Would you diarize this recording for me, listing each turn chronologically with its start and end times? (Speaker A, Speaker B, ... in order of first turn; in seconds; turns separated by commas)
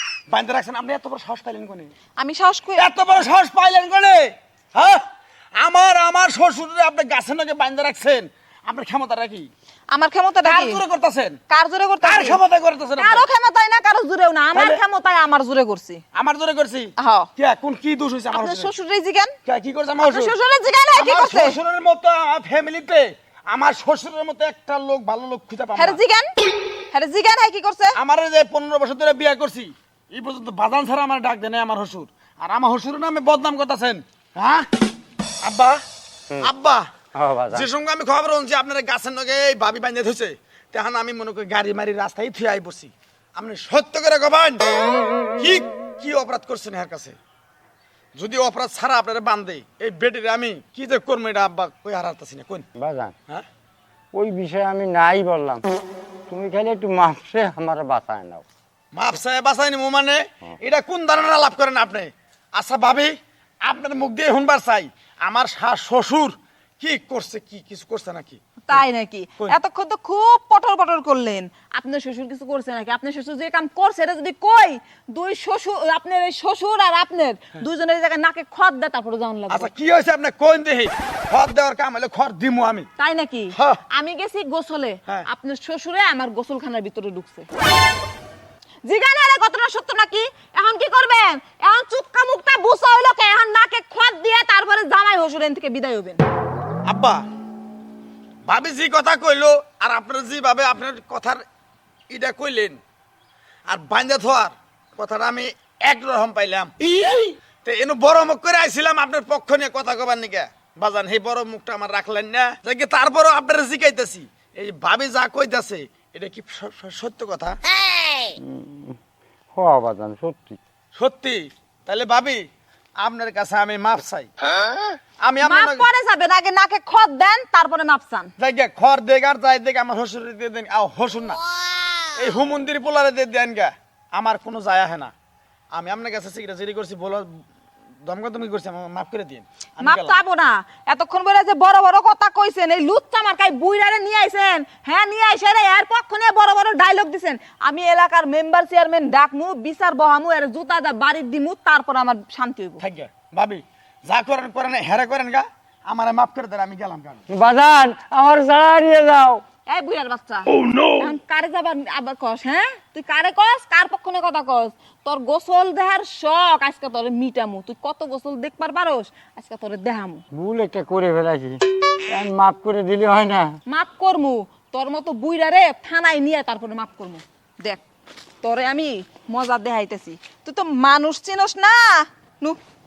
Speaker A: 0.3-1.9, Speaker B: 2.2-2.9, Speaker A: 2.8-5.0, Speaker A: 5.5-9.5, Speaker B: 9.9-10.8, Speaker A: 10.4-11.4, Speaker B: 11.5-12.4, Speaker A: 12.0-13.2, Speaker B: 13.0-16.0, Speaker A: 14.5-14.8, Speaker A: 16.1-18.7, Speaker B: 17.0-17.3, Speaker B: 18.3-19.3, Speaker A: 19.4-20.3, Speaker B: 20.0-21.6, Speaker A: 20.9-26.0, Speaker B: 25.8-26.3, Speaker B: 26.9-27.9, Speaker A: 27.9-34.7, Speaker A: 35.4-35.8, Speaker A: 36.4-36.9, Speaker C: 37.1-37.7, Speaker A: 37.5-44.8, Speaker A: 45.4-47.1, Speaker A: 48.2-52.7, Speaker C: 52.8-53.1, Speaker C: 54.1-55.6, Speaker C: 56.3-58.4, Speaker A: 58.9-68.8, Speaker B: 68.7-79.7, Speaker A: 79.5-82.9, Speaker B: 83.0-87.5, Speaker A: 83.5-83.8, Speaker B: 88.8-96.2, Speaker A: 96.8-97.2, Speaker A: 98.5-101.4, Speaker A: 102.1-102.8, Speaker A: 103.7-117.6, Speaker C: 118.4-119.0, Speaker C: 119.5-120.6, Speaker A: 120.9-122.4, Speaker A: 123.0-124.3, Speaker A: 125.2-125.9, Speaker B: 125.4-128.3, Speaker A: 128.4-131.4, Speaker A: 132.1-135.1, Speaker A: 135.7-137.4, Speaker A: 138.0-140.1, Speaker B: 139.8-152.8, Speaker A: 152.8-157.2, Speaker C: 157.3-159.4, Speaker B: 159.7-170.2, Speaker C: 170.3-173.6, Speaker B: 173.7-177.8, Speaker B: 178.4-182.6